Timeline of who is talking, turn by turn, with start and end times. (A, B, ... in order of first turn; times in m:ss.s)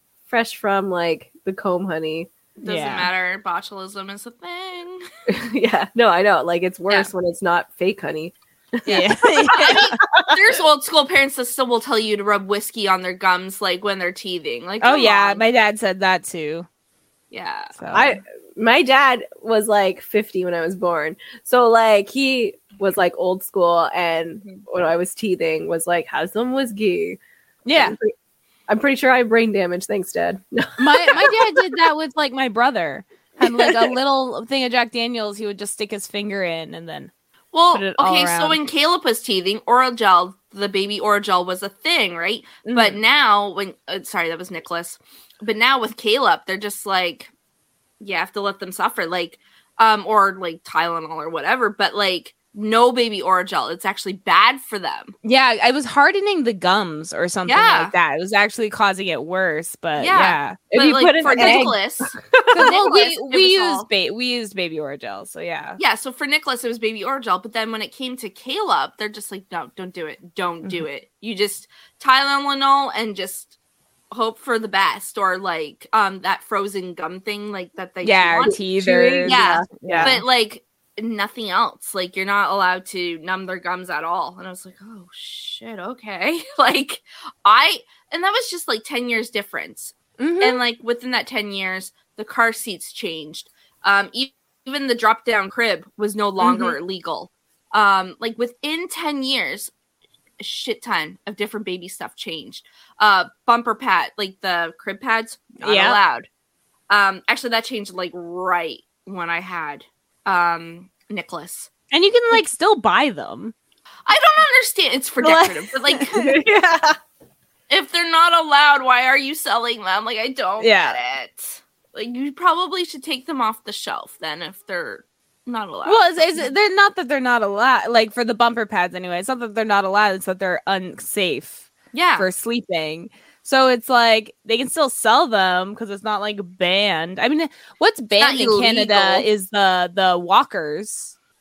0:00.3-0:02.3 A
0:02.6-0:05.0 B
0:02.6-0:03.1 C
0:05.3-0:10.4 A
0:08.9-0:10.0 C
0:08.9-0:15.4 B
0:14.8-0:16.7 C
0:17.3-0:17.7 B
0:17.8-0:18.2 C
0:17.9-0:27.2 A
0:27.7-0:28.0 C
0:27.7-0:28.1 A
0:28.7-0:31.4 A
0:30.8-0:37.1 C
0:33.4-0:33.9 A
0:37.5-0:47.3 B
0:37.7-0:38.6 C
0:42.7-0:43.0 C
0:48.0-0:55.1 B
0:55.2-1:00.6 C
0:57.4-0:57.9 B
1:00.0-1:03.9 B
1:00.7-1:02.7 A
1:01.4-1:01.7 C
1:02.5-1:05.8 C
1:05.8-1:13.5 B
1:14.1-1:18.6 B
1:18.0-1:20.2 C
1:18.4-1:20.2 A
1:19.2-1:39.7 B
1:30.2-1:30.6 C
1:36.4-1:36.8 C
1:40.4-1:46.3 B
1:45.6-1:46.0 C
1:46.9-1:51.7 B
1:51.9-1:53.5 C
1:54.1-1:56.2 B
1:55.2-1:56.2 C
1:56.1-1:57.0 A
1:57.7-2:06.2 B
2:00.6-2:01.0 C
2:05.9-2:21.1 C
2:11.9-2:12.3 B
2:18.2-2:19.3 B